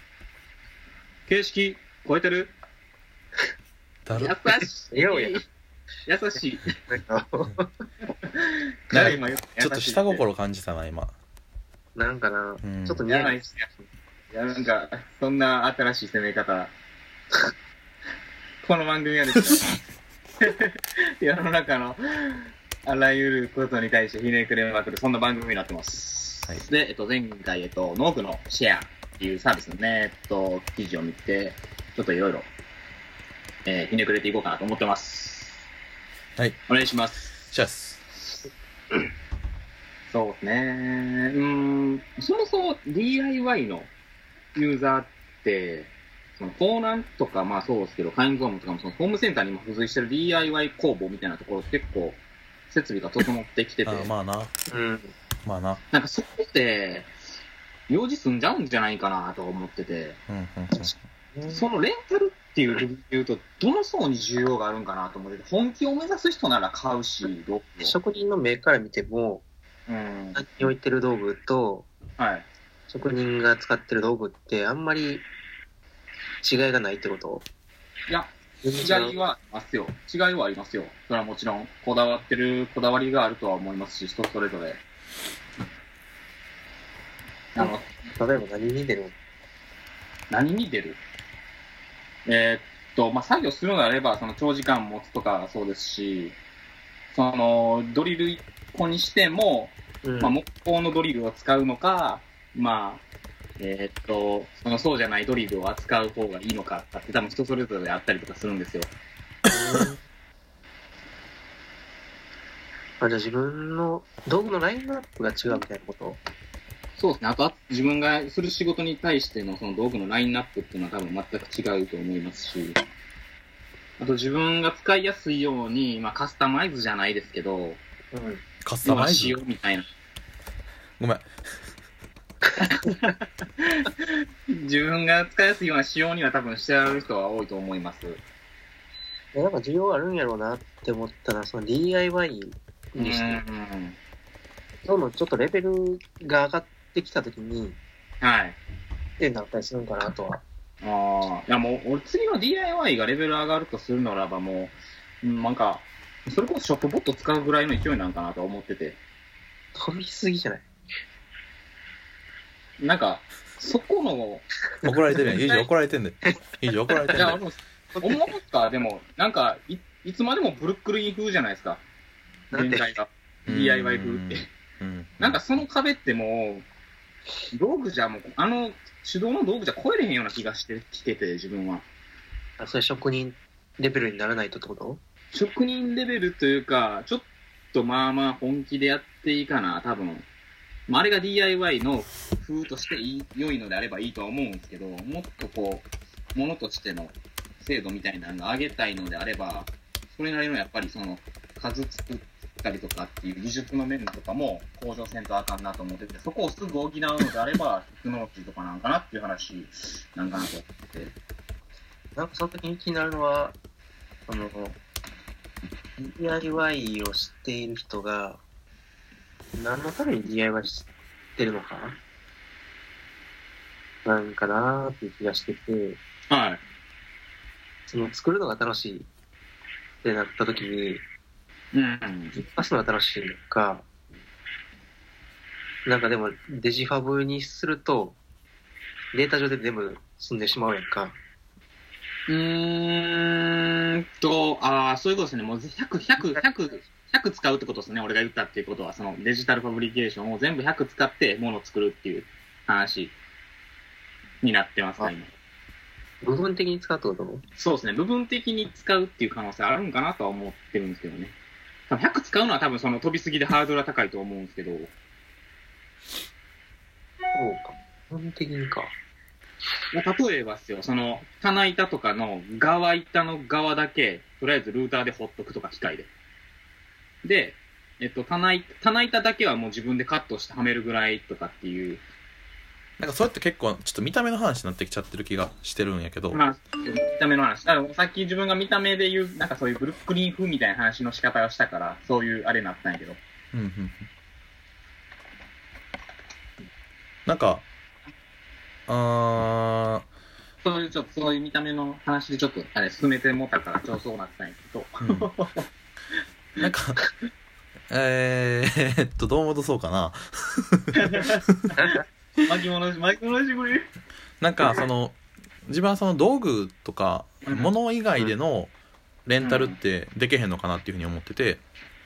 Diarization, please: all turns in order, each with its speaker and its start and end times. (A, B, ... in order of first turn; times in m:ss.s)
0:01.3-0:02.5 A
0:04.1-0:04.6 B
0:04.1-0:05.4 A
0:04.9-0:05.4 C
0:06.1-0:06.7 A
0:06.9-0:07.7 C
0:08.2-0:10.2 A
0:08.9-0:11.2 B
0:12.0-0:13.9 C
0:12.6-0:13.0 B
0:13.1-0:13.7 A
0:14.3-0:16.7 A
0:18.6-0:19.7 A
0:20.4-0:32.5 A
0:33.6-0:35.6 A
0:36.7-0:37.3 A
0:37.5-0:38.0 B
0:40.1-0:43.9 A
0:44.6-0:54.1 A
0:53.8-0:54.5 B
0:54.7-0:55.1 C
0:55.4-0:55.8 B
0:55.9-0:57.1 A
0:57.9-1:00.2 A
1:00.3-1:01.0 B
1:00.8-1:01.6 C
1:01.5-1:08.0 A
1:07.8-1:09.4 C
1:09.9-1:10.4 A
1:10.4-1:11.9 C
1:12.2-1:12.5 A
1:12.9-1:15.3 C
1:16.4-1:17.5 C
1:18.1-1:24.8 A
1:18.6-1:19.2 C
1:27.6-1:27.9 A
1:27.6-1:29.1 C
1:30.3-1:31.0 A
1:32.3-1:36.4 A
1:37.1-1:43.0 A
1:40.0-1:40.4 C
1:43.6-1:48.9 A
1:49.5-1:50.0 C
1:53.0-1:56.2 C
1:57.0-2:02.8 A
2:04.0-2:07.8 A
2:08.1-2:08.4 C
2:08.6-2:09.4 B
2:08.8-2:09.9 A
2:11.0-2:11.2 B
2:12.6-2:18.2 A
2:19.3-2:23.4 C
2:23.0-2:24.0 A
2:24.8-2:27.8 C
2:28.2-2:28.6 A
2:29.2-2:30.4 C
2:30.8-2:39.0 A
2:39.8-2:40.7 C
2:42.8-2:44.5 A
2:44.8-2:47.4 B
2:45.3-2:45.7 A
2:47.1-2:51.8 A
2:52.5-2:52.9 C
2:52.5-2:54.5 A
2:53.5-2:55.4 B
2:55.2-2:56.7 A
2:57.5-3:01.9 A
3:02.6-3:05.0 C
3:05.3-3:10.3 A
3:10.9-3:31.1 A
3:32.2-3:33.6 C
3:34.3-3:34.8 C
3:36.0-3:38.4 C
3:39.6-3:42.0 C
3:44.0-3:46.0 C
3:46.3-3:46.6 A
3:47.9-3:49.1 C
3:50.0-3:51.0 C
3:51.7-3:52.4 A
3:52.3-3:53.8 C
3:55.8-3:58.2 C
3:59.1-4:01.2 C
4:02.3-4:13.2 A
4:06.2-4:06.4 C
4:14.4-4:15.3 A
4:16.2-4:17.4 C
4:17.6-4:21.4 A
4:21.9-4:24.9 A
4:27.3-4:29.0 C
4:29.9-4:36.1 A
4:37.2-4:42.0 A
4:43.0-4:46.4 B
4:46.3-4:53.2 A
4:53.5-4:54.1 B
4:57.3-4:57.7 B
4:58.9-5:00.1 B
5:00.6-5:05.7 A
5:05.0-5:05.3 B
5:06.6-5:07.0 B
5:07.9-5:11.2 B
5:11.0-5:13.9 A
5:14.4-5:18.7 B
5:17.4-5:18.3 A
5:19.3-5:21.6 B
5:19.4-5:19.8 A